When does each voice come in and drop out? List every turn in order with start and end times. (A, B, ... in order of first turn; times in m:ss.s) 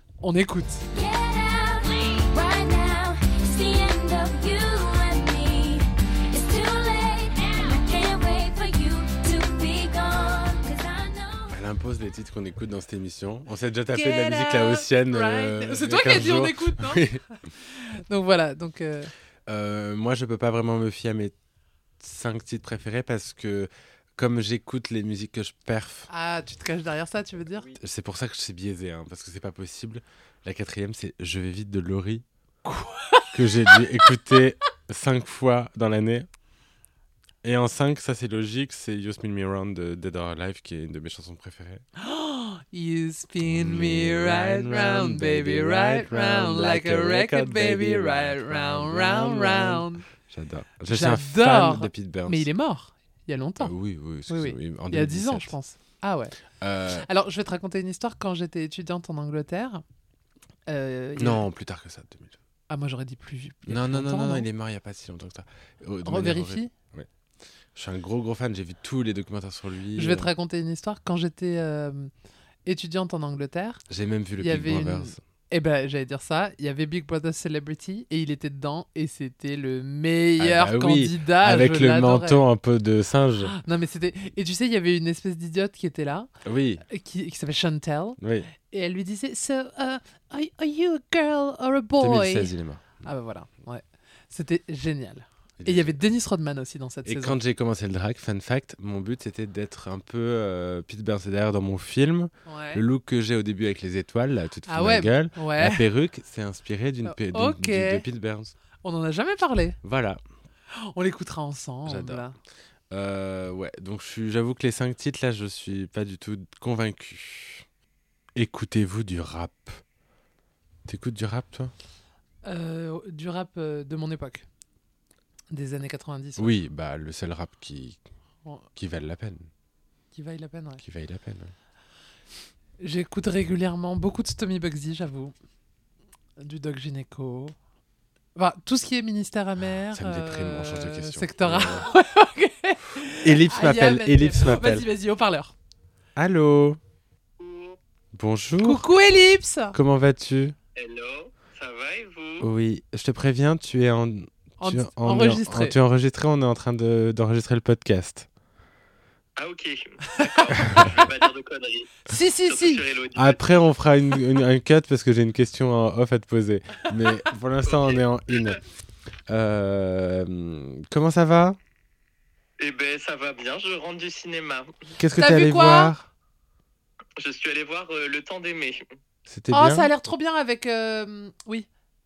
0:00.2-0:00.8 A
0:00.9-0:11.6 B
0:11.5-0:17.2 C
0:13.9-0:19.1 A
0:19.5-0:21.3 C
0:22.0-0:26.1 C
0:26.1-0:27.8 A
0:27.8-0:32.2 C
0:32.6-0:34.4 A
0:33.3-0:36.3 C
0:37.4-0:41.8 C
0:42.0-0:50.1 A
0:43.4-0:52.5 C
0:50.9-0:53.7 A
0:53.6-0:55.6 C
0:54.3-0:56.4 A
0:56.6-0:57.1 C
0:56.9-0:59.8 A
1:00.7-1:01.4 A
1:01.2-1:02.4 C
1:02.7-1:04.5 A
1:03.7-1:07.1 C
1:06.0-1:06.7 A
1:07.8-1:10.3 C
1:10.0-1:12.1 A
1:12.6-1:13.8 A
1:13.9-1:15.2 C
1:14.4-1:22.4 A
1:20.4-1:23.5 C
1:23.4-1:26.3 A
1:26.4-1:26.8 C
1:26.9-1:37.4 A
1:28.2-1:28.5 C
1:32.0-1:33.0 C
1:35.6-1:36.0 C
1:37.0-1:48.5 C
1:42.5-1:42.8 A
1:44.7-1:45.8 A
1:47.1-1:48.0 A
1:48.8-1:49.8 A
1:49.8-1:50.2 C
1:50.7-1:52.4 A
1:51.9-1:52.2 C
1:52.9-1:57.7 C
1:58.4-1:59.8 C
2:00.9-2:01.7 C
2:02.4-2:04.5 A
2:05.5-2:06.6 A
2:06.4-2:08.0 C
2:08.8-2:09.5 C
2:10.1-2:10.8 A
2:10.8-2:11.5 C
2:12.8-2:15.3 A
2:16.4-2:17.6 A
2:18.4-2:25.5 A
2:19.9-2:21.9 C
2:23.2-2:24.9 C
2:26.2-2:26.8 C
2:27.4-2:27.8 D
2:28.1-2:28.9 C
2:28.6-2:29.8 A
2:29.7-2:30.6 C
2:30.8-2:32.5 D
2:32.4-2:38.3 C
2:34.6-2:35.8 A
2:39.4-2:43.6 D
2:40.6-2:41.0 C
2:42.1-2:42.8 A
2:43.2-2:48.6 C
2:47.6-2:48.6 D
2:49.3-2:51.6 C
2:52.6-2:54.7 D
2:55.0-2:56.1 C
2:55.2-2:55.9 A
2:57.2-2:58.8 D
2:59.3-2:59.9 C
2:59.5-3:01.7 A